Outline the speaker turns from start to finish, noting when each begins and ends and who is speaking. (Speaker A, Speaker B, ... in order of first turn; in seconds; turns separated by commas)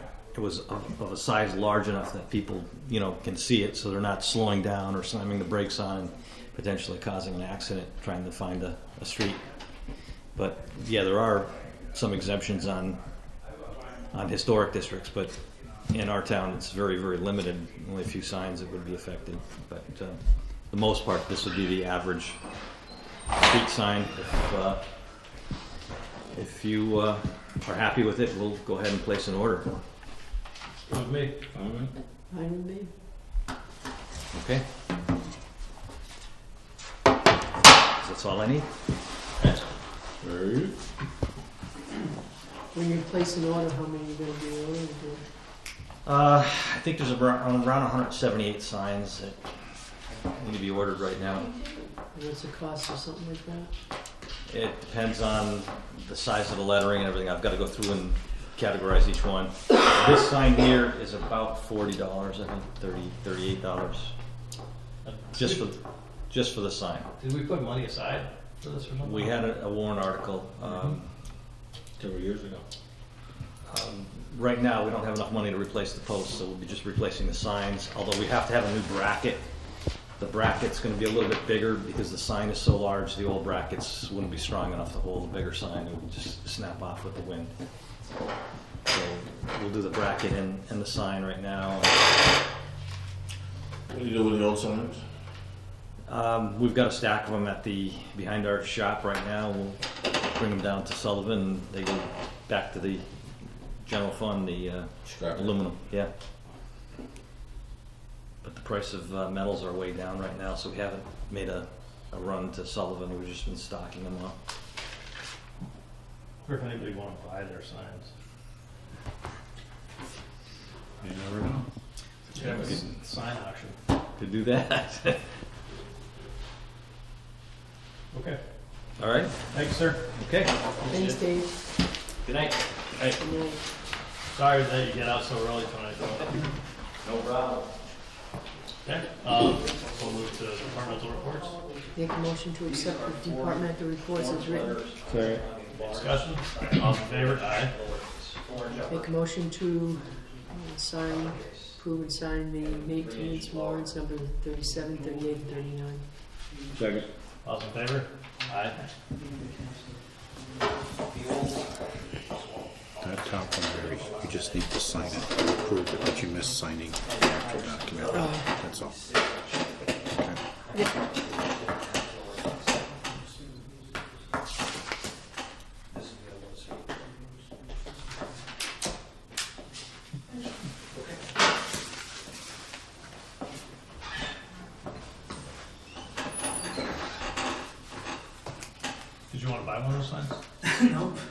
Speaker A: 0.3-9.8, Speaker A: 10.3-13.1, Speaker A: 14.1-25.5, Speaker A: 26.3-29.8, Speaker B: 30.9-31.4, Speaker C: 31.5-31.9, Speaker D: 32.3-32.9, Speaker A: 34.3-34.7, Speaker A: 38.0-38.7, Speaker C: 40.2-40.7, Speaker D: 42.7-45.3, Speaker A: 46.0-51.5, Speaker D: 52.1-53.7, Speaker A: 54.5-64.2, Speaker B: 65.0-65.7, Speaker A: 65.4-67.1, Speaker B: 67.2-69.3, Speaker A: 69.0-71.1, Speaker C: 72.0-72.7, Speaker A: 73.7-88.0, Speaker A: 88.8-92.0, Speaker C: 93.9-95.1, Speaker A: 96.1-106.2, Speaker C: 105.0-105.8, Speaker A: 108.4-114.4, Speaker B: 116.4-118.1, Speaker E: 121.0-121.7, Speaker B: 122.3-123.8, Speaker C: 122.4-122.8, Speaker A: 122.5-122.8, Speaker A: 124.2-125.3, Speaker B: 128.1-128.9, Speaker A: 129.0-130.7, Speaker B: 129.5-130.1, Speaker B: 130.7-131.2, Speaker D: 130.9-131.5, Speaker A: 132.1-132.8, Speaker D: 133.2-133.6, Speaker B: 134.3-136.5, Speaker A: 137.0-137.9, Speaker B: 138.8-141.6, Speaker A: 139.6-140.0, Speaker A: 141.5-142.0, Speaker D: 141.9-144.8, Speaker A: 142.7-149.1, Speaker C: 145.0-145.5, Speaker B: 145.8-147.8, Speaker D: 148.9-156.1, Speaker A: 150.1-150.4, Speaker A: 151.1-151.8, Speaker A: 152.7-153.9, Speaker C: 156.7-157.1, Speaker B: 157.4-158.8, Speaker A: 159.2-159.9, Speaker A: 161.0-163.0, Speaker E: 163.0-169.0, Speaker A: 163.9-165.9, Speaker A: 167.0-174.1, Speaker D: 168.1-168.5, Speaker E: 170.1-170.4, Speaker A: 175.9-177.5, Speaker B: 189.3-190.4